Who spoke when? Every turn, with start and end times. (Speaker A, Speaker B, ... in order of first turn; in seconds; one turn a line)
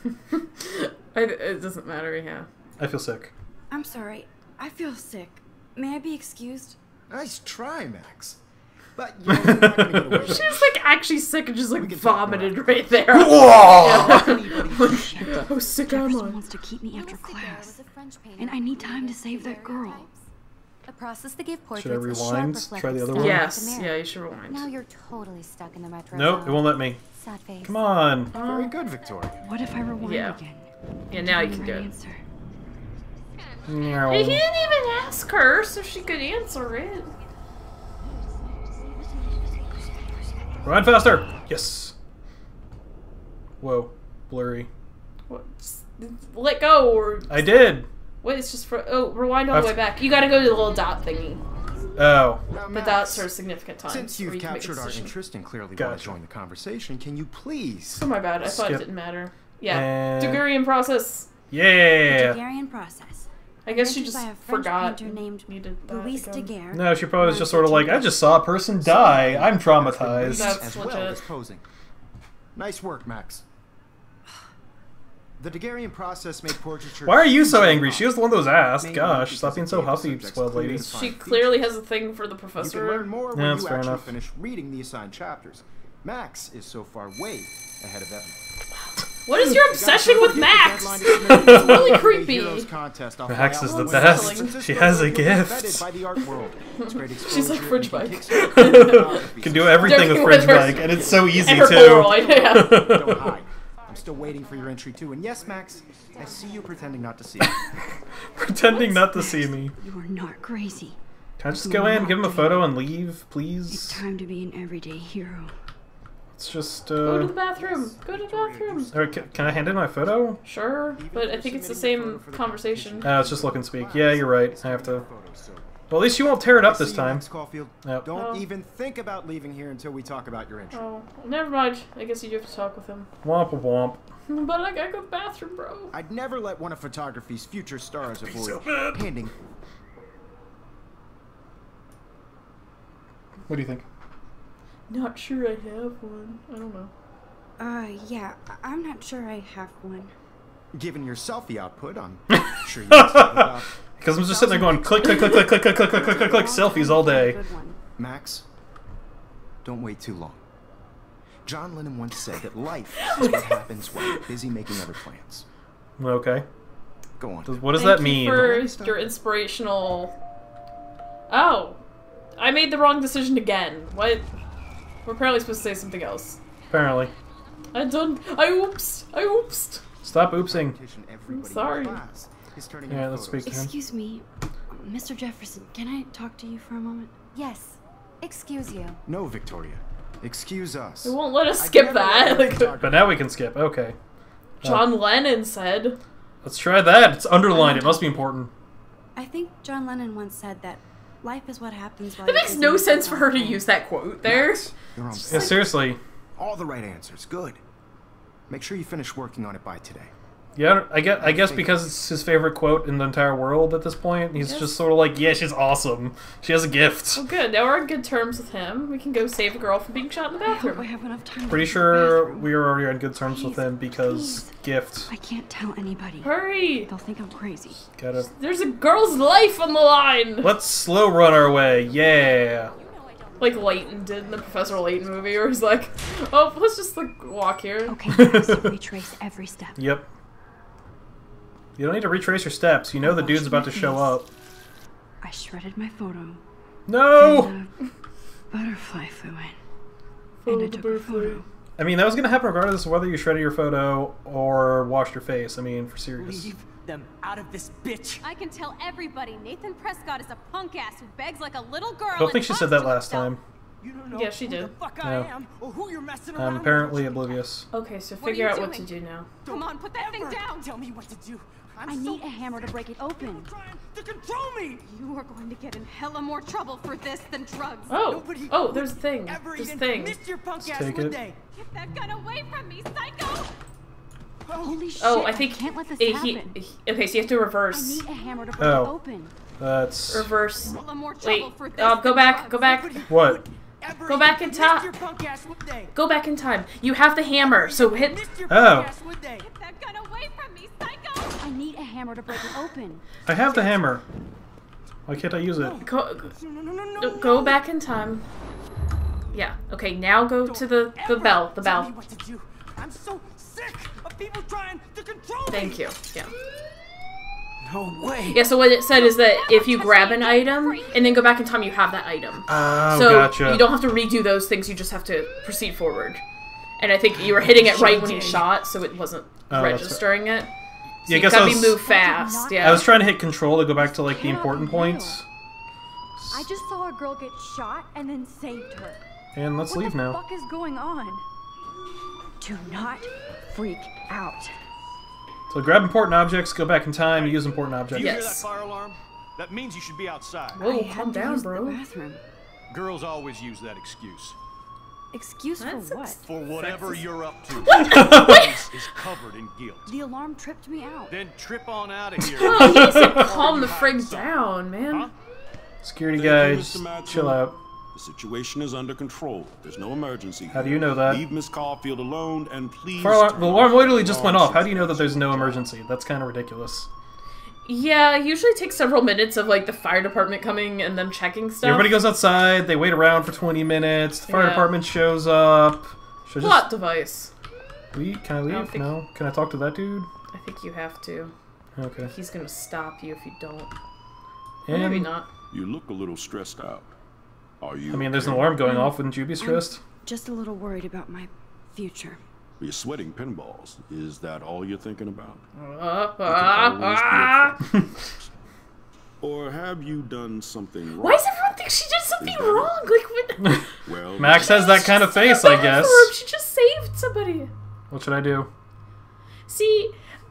Speaker A: 0.3-2.5
Speaker B: 2.8-3.3
Speaker C: 3.7-6.8
Speaker D: 7.1-8.4
Speaker D: 9.0-10.7
Speaker B: 9.3-10.4
Speaker A: 10.2-16.4
Speaker D: 11.8-15.8
Speaker B: 13.1-14.4
Speaker C: 14.8-17.8
Speaker E: 16.9-20.3
Speaker C: 18.4-20.1
Speaker E: 20.9-24.0
Speaker B: 21.8-23.7
Speaker A: 23.2-24.7
Speaker E: 24.5-27.8
Speaker B: 26.1-27.0
Speaker B: 27.6-28.3
Speaker D: 28.3-29.4
Speaker A: 28.3-28.8
Speaker C: 29.4-32.2
Speaker A: 30.0-30.4
Speaker A: 31.1-31.9
Speaker B: 33.7-34.5
Speaker A: 34.1-37.1
Speaker B: 40.6-42.0
Speaker B: 43.6-44.7
Speaker A: 45.3-47.6
Speaker B: 47.3-47.9
Speaker A: 48.2-51.4
Speaker B: 49.5-49.8
Speaker B: 52.0-52.4
Speaker D: 52.5-53.3
Speaker A: 52.7-55.1
Speaker D: 53.9-58.1
Speaker B: 55.8-56.2
Speaker A: 57.9-61.3
Speaker B: 58.4-58.9
Speaker B: 59.7-60.5
Speaker B: 61.5-62.4
Speaker C: 62.0-68.4
Speaker A: 63.6-66.5
Speaker B: 66.7-70.6
Speaker D: 68.8-71.6
Speaker A: 70.2-71.2
Speaker D: 72.5-73.4
Speaker D: 75.4-78.1
Speaker B: 77.0-80.9
Speaker D: 78.8-81.7
Speaker A: 80.9-83.1
Speaker D: 82.6-88.4
Speaker B: 83.3-84.1
Speaker A: 89.2-92.7
Speaker D: 89.4-107.6
Speaker B: 91.3-92.0
Speaker B: 93.3-95.9
Speaker A: 93.6-94.6
Speaker A: 96.8-102.9
Speaker B: 98.4-103.3
Speaker B: 107.4-109.7
Speaker C: 108.7-111.0
Speaker B: 111.4-114.0
Speaker C: 111.5-112.8
Speaker C: 113.7-115.5
Speaker B: 116.3-117.3
Speaker A: 117.0-118.9
Speaker D: 117.5-119.9
Speaker B: 118.9-120.4
Speaker A: 120.5-123.1
Speaker D: 121.0-125.8
Speaker B: 123.0-125.1
Speaker B: 125.9-127.3
Speaker D: 126.6-130.8
Speaker A: 128.1-128.5
Speaker A: 130.7-133.1
Speaker B: 133.2-134.0
Speaker A: 134.3-135.9
Speaker D: 135.9-139.3
Speaker B: 138.1-139.1
Speaker B: 143.5-143.8
Speaker A: 144.9-146.9
Speaker C: 147.6-150.1
Speaker D: 150.7-153.7
Speaker B: 152.3-157.4
Speaker C: 154.2-157.8
Speaker D: 158.0-158.4
Speaker D: 159.6-160.4
Speaker D: 161.5-165.5
Speaker A: 163.1-163.5
Speaker B: 166.0-166.5
Speaker D: 167.2-169.1
Speaker B: 167.5-168.6
Speaker A: 167.7-170.1
Speaker A: 171.3-171.8
Speaker A: 172.4-174.3
Speaker A: 175.1-176.4
Speaker B: 176.7-177.1
Speaker A: 177.7-179.8
Speaker B: 180.0-180.8
Speaker D: 180.3-183.6
Speaker A: 181.3-182.0
Speaker B: 182.9-183.7
Speaker C: 183.5-187.1
Speaker E: 187.3-189.0
Speaker D: 189.1-193.2
Speaker A: 191.0-192.8
Speaker B: 192.8-194.0
Speaker A: 194.6-196.0
Speaker B: 194.6-195.0
Speaker B: 196.4-198.5
Speaker C: 197.5-198.0
Speaker C: 199.2-203.7
Speaker A: 202.2-204.7
Speaker D: 204.2-205.8
Speaker A: 205.2-205.6
Speaker B: 205.3-206.0
Speaker D: 206.4-207.6
Speaker D: 208.5-210.1
Speaker B: 210.6-217.2
Speaker A: 214.4-214.8
Speaker A: 217.2-220.9
Speaker C: 220.4-222.6
Speaker B: 221.5-225.1
Speaker C: 223.3-224.5
Speaker C: 225.1-227.9
Speaker A: 226.2-226.9
Speaker B: 228.0-228.3
Speaker A: 228.3-230.5
Speaker B: 230.4-232.7
Speaker F: 232.4-234.6
Speaker A: 233.4-238.0
Speaker C: 237.9-239.8
Speaker B: 238.1-238.8
Speaker B: 239.8-240.1
Speaker B: 241.8-244.3
Speaker C: 243.0-244.1
Speaker C: 245.2-246.4
Speaker B: 246.9-247.5
Speaker C: 247.2-247.8
Speaker C: 248.5-249.6
Speaker A: 250.4-251.4
Speaker C: 250.5-251.4
Speaker B: 251.8-256.5
Speaker G: 256.2-258.2
Speaker F: 258.2-263.3
Speaker B: 262.1-263.4
Speaker G: 263.8-267.2
Speaker A: 264.1-264.7
Speaker B: 265.0-265.3
Speaker B: 266.4-267.7
Speaker A: 267.7-269.3
Speaker F: 268.2-268.9
Speaker F: 269.4-270.6
Speaker G: 269.5-272.1
Speaker C: 271.9-273.5
Speaker G: 273.6-274.7
Speaker F: 274.8-278.0
Speaker A: 277.9-280.2
Speaker G: 278.2-281.4
Speaker B: 280.6-281.2
Speaker F: 281.5-283.5
Speaker C: 284.6-286.6
Speaker A: 285.0-288.1
Speaker C: 287.7-289.3
Speaker B: 288.6-289.0
Speaker B: 289.6-290.3
Speaker A: 290.1-293.0
Speaker F: 290.7-293.1
Speaker B: 293.1-293.4
Speaker G: 293.1-295.9
Speaker A: 294.1-294.9
Speaker A: 295.9-298.2
Speaker G: 297.7-299.4
Speaker B: 298.5-298.9
Speaker F: 299.4-301.4
Speaker C: 301.4-303.1
Speaker B: 303.3-304.0
Speaker B: 305.1-305.8
Speaker A: 305.8-306.3
Speaker G: 306.4-307.5
Speaker A: 307.0-308.3
Speaker A: 309.3-311.9
Speaker G: 310.5-315.7
Speaker A: 315.5-316.3
Speaker G: 317.6-318.5
Speaker A: 318.3-326.2
Speaker F: 318.8-321.2
Speaker B: 322.5-323.7
Speaker A: 326.8-330.5
Speaker C: 327.6-328.5
Speaker B: 329.5-330.0
Speaker B: 331.1-331.9
Speaker A: 331.1-332.9
Speaker C: 331.9-332.9
Speaker B: 332.6-335.3
Speaker C: 333.8-335.2
Speaker C: 336.3-339.0
Speaker B: 339.4-340.2
Speaker C: 339.7-341.2
Speaker C: 342.4-344.6
Speaker B: 345.5-348.3
Speaker H: 347.9-348.4
Speaker A: 348.0-348.4
Speaker I: 348.0-350.6
Speaker C: 350.6-352.2
Speaker A: 350.6-351.8
Speaker I: 352.7-354.4
Speaker C: 355.1-356.8
Speaker A: 355.6-356.2
Speaker I: 356.2-359.9
Speaker A: 357.6-358.7
Speaker B: 357.9-358.4
Speaker C: 359.9-361.1
Speaker I: 361.1-364.3
Speaker A: 362.3-365.1
Speaker B: 362.5-363.2
Speaker B: 365.8-367.5
Speaker H: 366.1-367.4
Speaker H: 367.9-375.7
Speaker B: 370.5-371.2
Speaker B: 373.0-376.9
Speaker A: 377.6-382.0
Speaker B: 381.6-386.7
Speaker A: 384.3-384.7
Speaker A: 386.4-387.3
Speaker B: 387.9-390.1
Speaker A: 388.5-388.9
Speaker A: 390.3-391.3
Speaker B: 391.8-392.1
Speaker A: 392.0-393.7
Speaker B: 394.7-395.1
Speaker A: 394.7-395.3
Speaker H: 395.5-396.9
Speaker H: 397.6-398.7
Speaker B: 397.9-399.8
Speaker C: 398.6-402.2
Speaker H: 402.6-405.4
Speaker A: 405.6-407.6
Speaker H: 406.2-408.3
Speaker H: 409.2-411.3
Speaker A: 411.0-413.6
Speaker H: 412.2-412.8
Speaker B: 413.4-416.1
Speaker H: 413.9-414.8
Speaker A: 414.3-417.5
Speaker B: 417.9-418.5
Speaker A: 419.5-419.9